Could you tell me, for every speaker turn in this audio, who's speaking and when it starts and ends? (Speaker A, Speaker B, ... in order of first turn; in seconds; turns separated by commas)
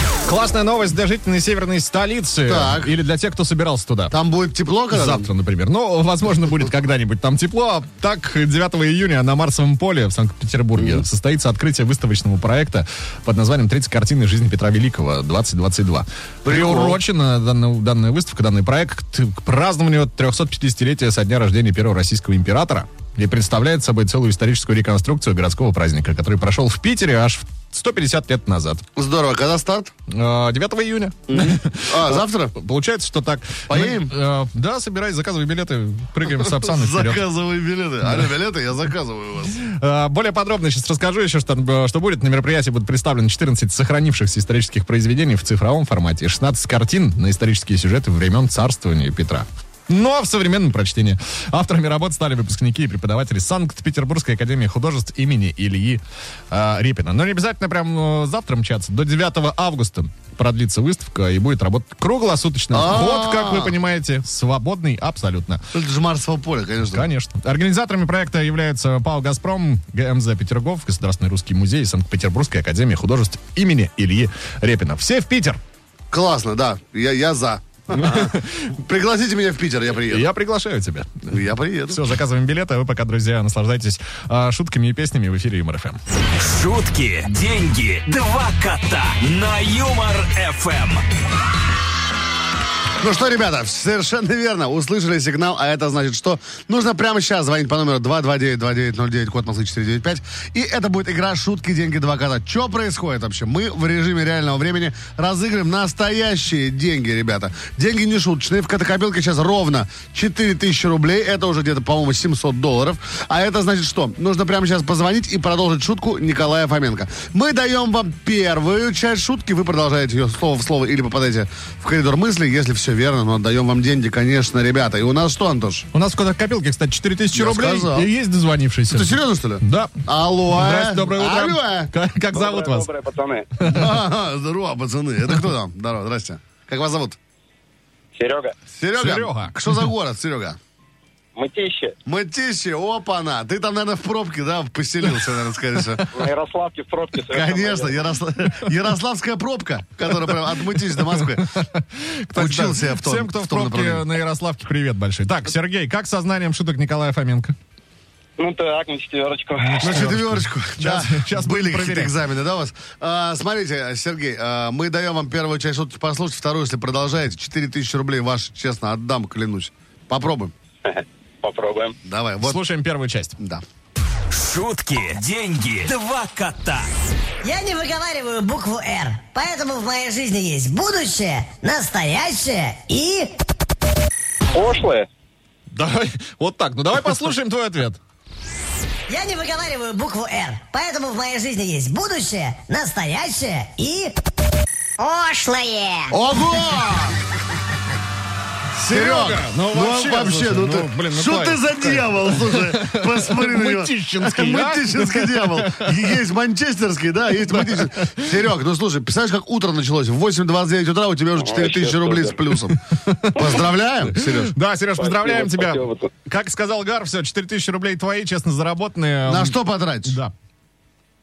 Speaker A: 0.3-4.1, Speaker B: 2.5-2.9, Speaker B: 4.1-5.3, Speaker A: 4.9-28.8, Speaker B: 10.8-11.0, Speaker B: 16.5-17.0, Speaker B: 29.0-29.9, Speaker A: 30.1-37.2, Speaker B: 31.3-32.5, Speaker B: 33.7-34.1, Speaker B: 36.4-39.6, Speaker A: 39.6-65.6, Speaker B: 62.7-63.7, Speaker B: 65.7-67.1, Speaker A: 66.9-75.6, Speaker B: 76.1-80.3, Speaker A: 77.9-78.7, Speaker A: 80.1-81.3, Speaker B: 81.3-82.0, Speaker A: 81.9-86.0, Speaker C: 86.4-91.0, Speaker B: 93.0-125.9, Speaker A: 125.9-132.9, Speaker B: 127.3-128.1, Speaker B: 128.9-131.9, Speaker D: 132.3-133.5, Speaker A: 133.6-134.0, Speaker B: 133.6-137.2, Speaker D: 138.2-138.6, Speaker B: 138.8-140.6, Speaker A: 139.0-139.9, Speaker D: 141.4-142.0, Speaker B: 142.1-146.1, Speaker D: 146.1-148.0, Speaker B: 147.3-151.5, Speaker A: 151.1-157.6, Speaker B: 152.3-154.1, Speaker D: 158.4-159.8, Speaker A: 159.6-162.1, Speaker B: 159.8-170.5, Speaker D: 170.8-172.0, Speaker B: 172.1-172.6, Speaker A: 172.4-173.4, Speaker C: 174.3-176.9, Speaker E: 177.4-183.3, Speaker D: 184.5-185.1, Speaker A: 185.7-188.0, Speaker E: 189.1-194.2, Speaker E: 195.0-196.2, Speaker B: 196.1-197.2, Speaker A: 198.8-206.0, Speaker B: 198.9-212.8, Speaker A: 207.5-208.3, Speaker D: 211.4-212.4, Speaker A: 213.0-220.3, Speaker B: 213.3-214.5, Speaker D: 215.0-216.1, Speaker B: 219.3-220.2